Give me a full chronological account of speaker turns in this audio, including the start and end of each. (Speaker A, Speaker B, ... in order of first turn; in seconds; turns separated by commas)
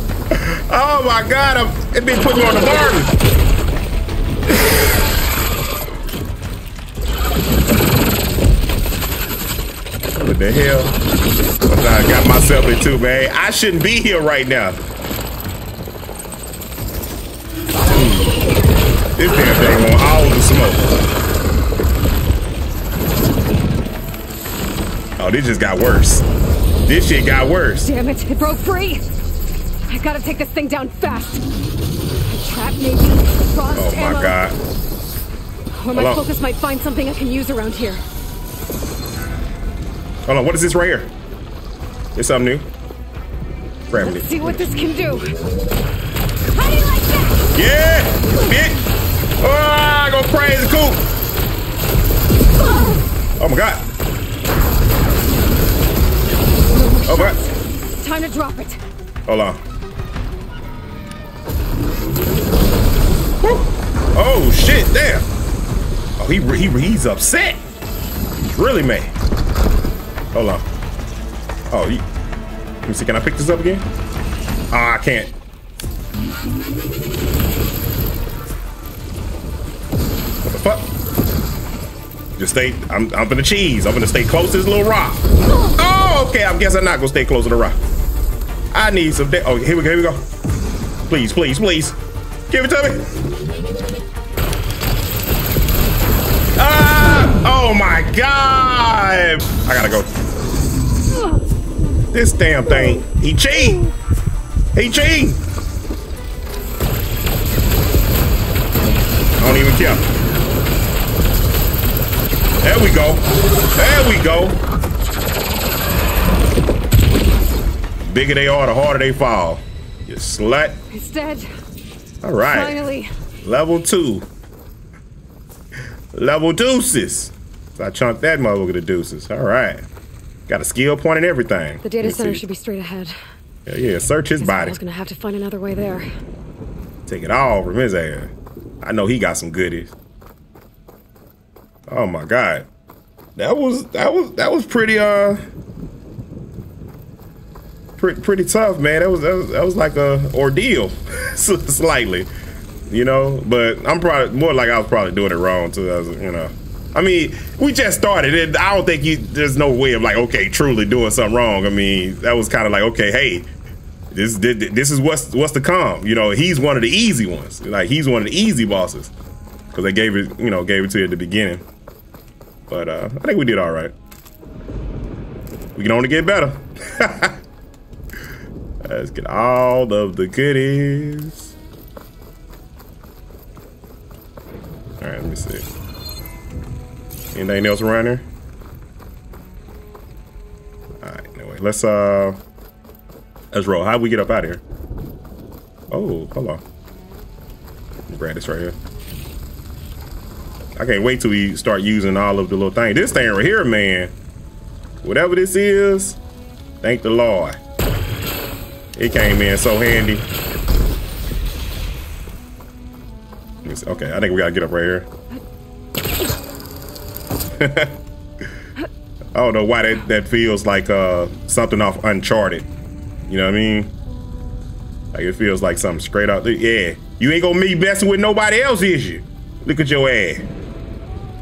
Speaker A: 0.3-3.1, Speaker A: 10.1-10.9, Speaker A: 11.7-14.8, Speaker A: 17.9-18.4, Speaker A: 19.2-20.9, Speaker A: 25.2-26.2, Speaker A: 26.9-27.9, Speaker B: 27.8-29.1, Speaker B: 29.9-31.5, Speaker B: 32.2-34.4, Speaker A: 33.7-34.6, Speaker B: 35.7-38.0, Speaker A: 36.0-36.2, Speaker A: 40.3-41.1, Speaker A: 42.1-42.7, Speaker A: 43.9-44.3, Speaker B: 44.0-45.3, Speaker B: 46.6-47.5, Speaker A: 47.5-48.8, Speaker A: 49.4-51.0, Speaker A: 53.4-53.9, Speaker B: 56.7-58.8, Speaker A: 57.1-57.4, Speaker A: 59.3-59.6, Speaker A: 63.4-65.3, Speaker A: 66.2-67.6, Speaker A: 68.4-69.1, Speaker A: 70.3-70.7, Speaker A: 71.7-72.0, Speaker A: 72.8-73.9, Speaker A: 74.7-75.3, Speaker A: 80.5-80.9, Speaker A: 82.4-87.8, Speaker A: 88.7-90.2, Speaker A: 91.1-92.0, Speaker A: 92.5-93.1, Speaker A: 96.6-100.1, Speaker A: 102.1-103.9, Speaker A: 104.7-105.4, Speaker A: 109.4-110.1, Speaker A: 112.6-114.6, Speaker A: 118.0-120.8, Speaker B: 120.9-121.5, Speaker A: 122.2-122.8, Speaker B: 122.4-123.1, Speaker A: 123.4-124.3, Speaker A: 126.1-129.8, Speaker A: 130.5-132.4, Speaker B: 131.8-133.2, Speaker A: 133.7-134.8, Speaker B: 134.4-136.1, Speaker A: 137.1-139.9, Speaker A: 141.9-142.7, Speaker A: 143.4-145.4, Speaker A: 148.0-152.3, Speaker A: 152.9-163.5, Speaker A: 164.1-169.1, Speaker A: 169.7-171.6, Speaker A: 172.7-173.9, Speaker A: 175.8-177.4, Speaker A: 178.8-181.5, Speaker A: 185.0-185.7, Speaker A: 187.3-188.2, Speaker A: 191.0-192.4, Speaker A: 193.5-194.6, Speaker A: 195.9-196.6, Speaker A: 198.1-198.8, Speaker A: 200.8-204.1, Speaker A: 205.0-206.2, Speaker A: 206.8-207.6, Speaker A: 209.0-210.3, Speaker A: 213.6-215.1, Speaker A: 217.6-218.0, Speaker A: 219.3-222.7, Speaker A: 223.3-223.9, Speaker A: 225.1-230.5